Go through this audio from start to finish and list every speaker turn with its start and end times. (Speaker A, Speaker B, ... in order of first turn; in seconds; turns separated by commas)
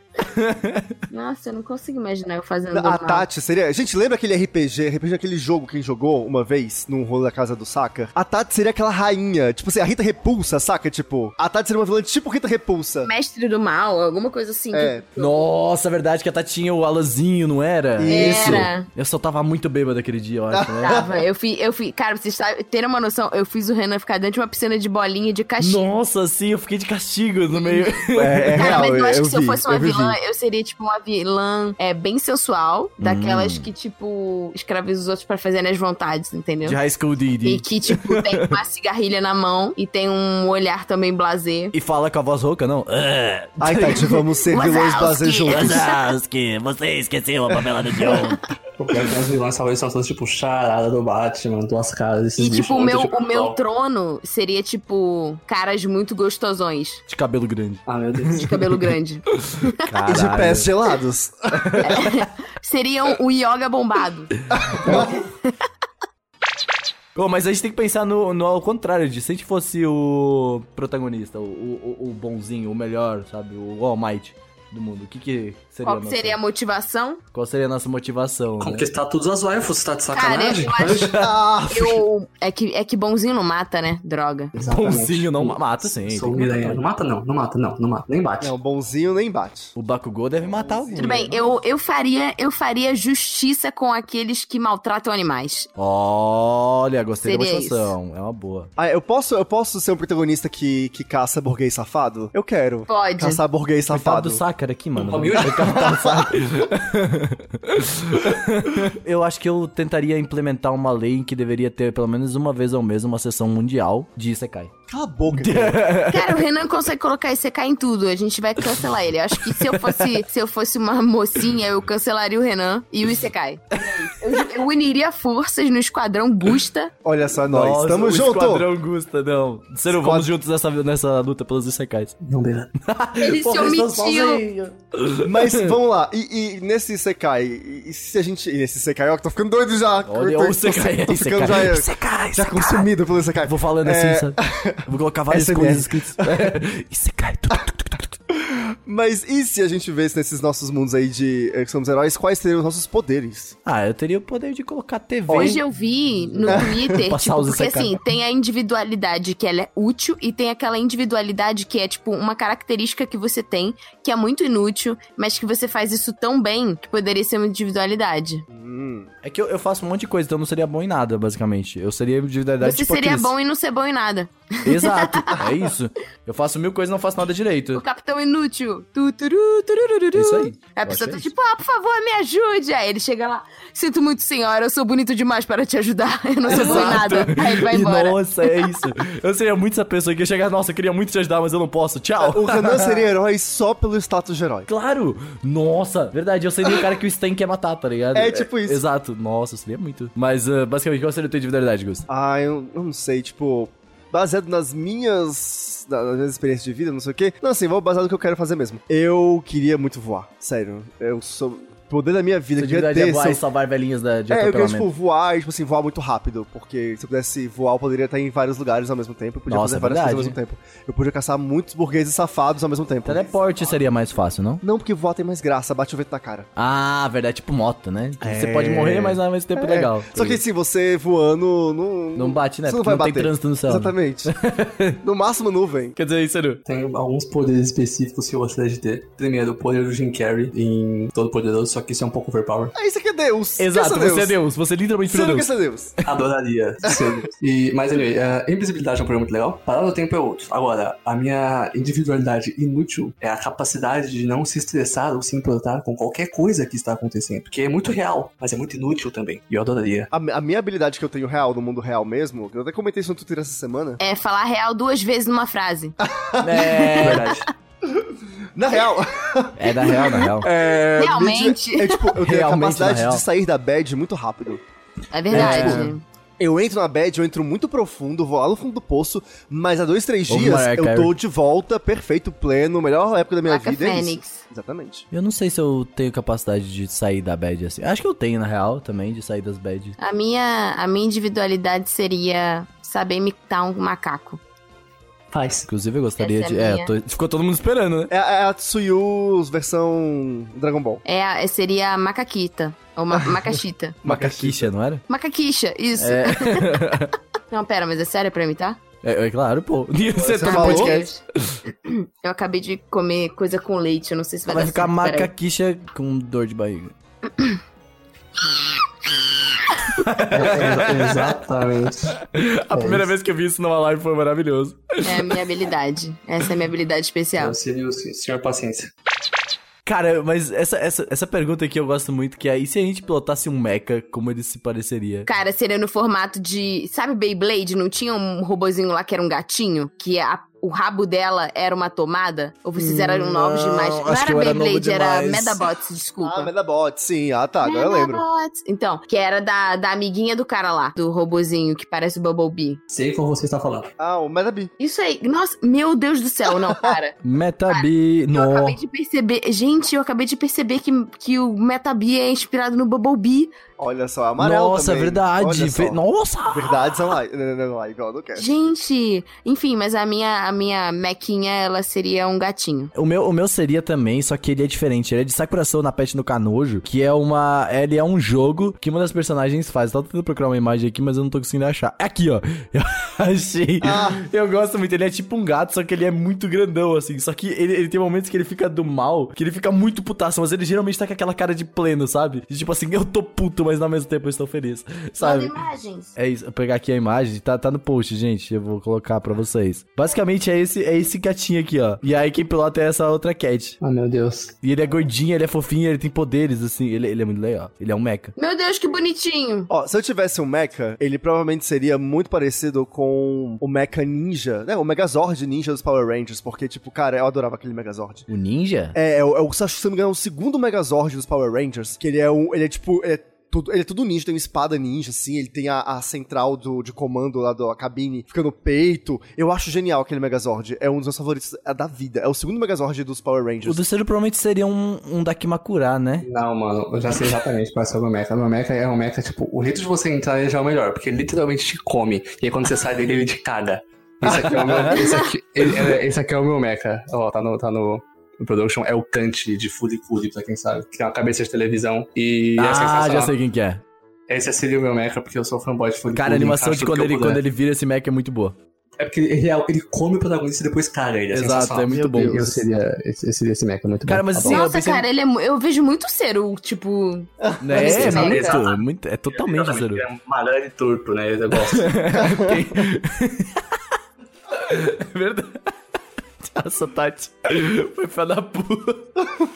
Speaker A: 0.2-0.9, Speaker B: 1.1-3.3, Speaker C: 2.7-13.1, Speaker B: 13.1-15.4, Speaker C: 14.7-15.1, Speaker A: 15.2-21.1, Speaker C: 18.0-18.7, Speaker B: 18.1-18.9, Speaker C: 20.5-21.1, Speaker B: 20.8-25.8, Speaker A: 25.6-28.9, Speaker B: 27.5-27.9, Speaker C: 28.1-30.2, Speaker B: 28.5-36.8, Speaker A: 33.0-33.7, Speaker A: 36.6-38.6, Speaker B: 37.4-41.7, Speaker A: 41.7-44.2, Speaker C: 43.6-45.8, Speaker B: 44.5-46.0, Speaker A: 45.5-48.4, Speaker D: 48.8-53.6, Speaker B: 52.4-57.0, Speaker A: 57.1-58.5, Speaker D: 57.9-58.5, Speaker B: 58.3-59.8, Speaker A: 59.4-60.7, Speaker C: 60.1-61.8, Speaker A: 61.5-62.2, Speaker B: 61.8-64.3, Speaker C: 64.5-65.2, Speaker A: 64.8-65.1, Speaker B: 64.9-65.5, Speaker A: 67.2-76.4, Speaker B: 75.8-77.2, Speaker A: 77.3-78.9, Speaker D: 78.6-81.1, Speaker B: 80.1-84.5, Speaker A: 80.8-82.0, Speaker C: 81.1-81.7, Speaker D: 84.5-88.5, Speaker A: 84.7-86.8, Speaker C: 88.4-89.8, Speaker A: 89.8-91.3, Speaker C: 90.4-91.5, Speaker B: 91.0-95.7, Speaker A: 95.8-98.7, Speaker B: 97.2-97.9, Speaker C: 98.8-104.4, Speaker B: 102.9-103.4, Speaker A: 103.9-114.7, Speaker D: 105.0-106.2, Speaker C: 105.5-106.4, Speaker C: 114.9-115.8, Speaker A: 115.3-116.3, Speaker B: 116.1-126.9, Speaker A: 119.6-120.2, Speaker A: 123.8-124.4, Speaker C: 127.0-128.7, Speaker A: 127.5-132.2, Speaker C: 129.9-130.3, Speaker D: 132.2-132.7, Speaker A: 132.8-135.7, Speaker B: 133.2-134.4, Speaker C: 135.2-146.5, Speaker A: 140.1-142.9, Speaker A: 143.5-148.1, Speaker C: 148.3-153.6, Speaker A: 153.7-155.6, Speaker C: 155.3-155.6, Speaker B: 155.3-168.4, Speaker A: 156.4-158.0, Speaker C: 156.4-157.1, Speaker C: 168.5-169.1, Speaker A: 169.2-173.3, Speaker B: 172.6-175.5, Speaker A: 174.7-177.8, Speaker B: 177.7-188.2, Speaker A: 180.2-181.3, Speaker A: 186.5-193.0, Speaker C: 186.5-187.1, Speaker C: 192.2-194.7, Speaker A: 194.7-202.1, Speaker C: 198.1-198.8, Speaker C: 202.1-213.4, Speaker A: 212.6-214.9, Speaker C: 214.3-223.8, Speaker A: 219.5-220.4, Speaker A: 223.1-224.6, Speaker C: 224.6-226.5, Speaker A: 226.6-230.4, Speaker C: 228.2-234.3, Speaker A: 232.2-235.0, Speaker C: 235.0-236.0, Speaker A: 236.0-236.6, Speaker D: 236.7-242.7, Speaker C: 242.7-244.4, Speaker A: 243.6-245.5, Speaker C: 245.1-245.9, Speaker D: 246.1-260.1, Speaker C: 246.8-247.2, Speaker C: 260.1-264.0, Speaker B: 264.0-266.0, Speaker C: 266.0-267.1, Speaker A: 266.4-267.4, Speaker B: 266.6-267.0, Speaker D: 267.0-267.5, Speaker C: 268.0-274.6, Speaker A: 269.6-270.5, Speaker B: 271.0-272.1, Speaker A: 272.2-273.2, Speaker B: 275.1-276.0, Speaker A: 275.3-275.9, Speaker C: 275.3-285.1, Speaker A: 280.3-281.1, Speaker B: 283.5-284.4, Speaker A: 285.1-290.0, Speaker B: 290.0-294.4, Speaker D: 295.3-295.7, Speaker A: 295.7-298.1, Speaker B: 296.2-296.9, Speaker C: 298.1-301.0, Speaker B: 301.1-304.0, Speaker C: 304.0-304.7, Speaker A: 304.1-305.0, Speaker B: 305.1-306.8, Speaker A: 306.0-307.1, Speaker B: 307.5-308.8, Speaker A: 309.0-311.6, Speaker C: 310.2-311.0, Speaker B: 310.4-315.3, Speaker A: 314.5-316.9, Speaker B: 317.3-317.6, Speaker A: 319.9-321.2, Speaker D: 320.3-322.2, Speaker A: 322.2-325.4, Speaker D: 322.7-323.1, Speaker B: 325.0-327.6, Speaker D: 327.4-328.9, Speaker A: 329.9-335.3, Speaker B: 335.3-346.5, Speaker A: 342.8-345.6, Speaker C: 346.2-348.2, Speaker B: 347.6-352.8, Speaker D: 352.9-353.9, Speaker C: 354.0-354.7, Speaker B: 354.8-363.5, Speaker C: 356.5-356.9, Speaker A: 357.2-358.8, Speaker C: 363.8-368.5, Speaker A: 364.4-366.8, Speaker B: 368.4-372.9, Speaker A: 372.9-395.5, Speaker C: 383.8-384.2, Speaker B: 395.2-396.1, Speaker A: 396.2-403.8, Speaker D: 403.8-404.6, Speaker A: 404.6-408.3, Speaker B: 408.4-409.7, Speaker C: 409.7-418.3, Speaker A: 418.3-419.0, Speaker C: 418.9-433.8, Speaker A: 433.6-436.3, Speaker D: 436.2-453.4, Speaker A: 444.2-445.0, Speaker B: 445.0-445.3, Speaker A: 452.6-453.8, Speaker D: 454.3-457.4, Speaker A: 456.2-458.6, Speaker D: 459.0-464.6, Speaker A: 461.3-462.6, Speaker C: 461.9-462.5, Speaker A: 464.1-465.1, Speaker B: 464.5-468.6, Speaker C: 467.4-468.3, Speaker A: 467.6-470.0, Speaker D: 467.8-471.9, Speaker A: 471.7-473.8, Speaker C: 472.1-472.7, Speaker A: 474.5-475.7, Speaker A: 476.4-479.2